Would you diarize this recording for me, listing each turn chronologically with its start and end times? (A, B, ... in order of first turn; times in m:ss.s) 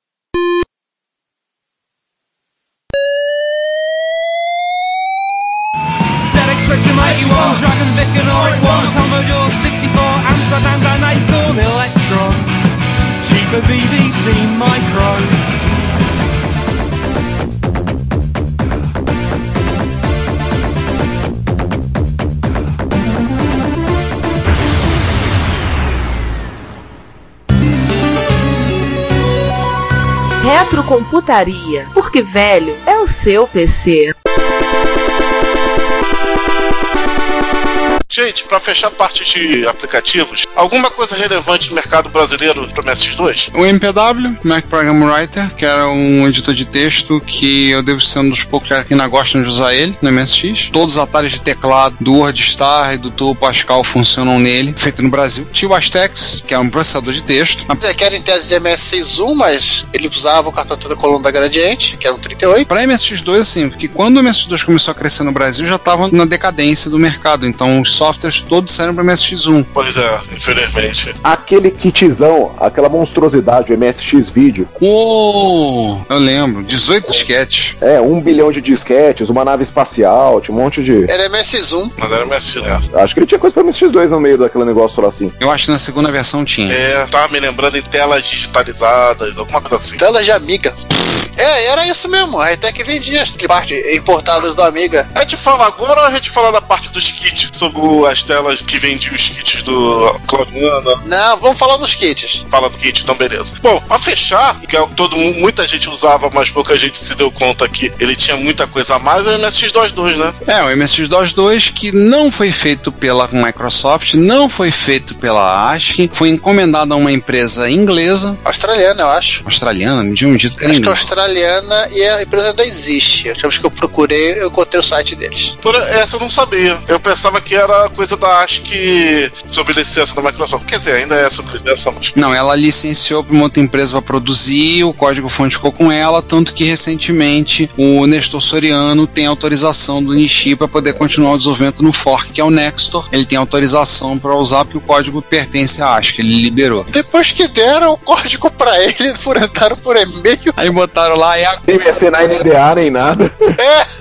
0:06.2-0:12.5 A
0:13.2-0:15.4 A
0:30.4-0:34.1 B
0:38.1-0:43.5 C
0:43.5-0:57.8 D
0:57.8-1:02.7 E
1:02.7-1:09.7 D
1:09.7-1:11.2 C
1:11.2-1:14.7 F
1:14.8-1:17.7 D
1:17.8-1:21.1 F
1:21.1-1:21.9 E
1:22.0-1:22.8 C
1:22.9-1:25.3 F
1:25.4-1:26.8 D
1:26.7-1:30.0 C
1:30.0-1:30.8 E
1:31.4-1:35.1 E
1:35.1-1:41.0 C
1:41.0-1:42.4 E
1:42.5-1:50.3 C
1:50.4-1:58.4 D
1:58.4-1:59.4 E
1:59.4-2:01.0 D
2:00.6-2:05.5 E
2:05.6-2:12.1 C
2:12.2-2:26.9 D
2:26.9-2:30.5 E
2:30.6-2:31.6 D
2:31.7-2:33.3 F
2:33.6-2:33.8 E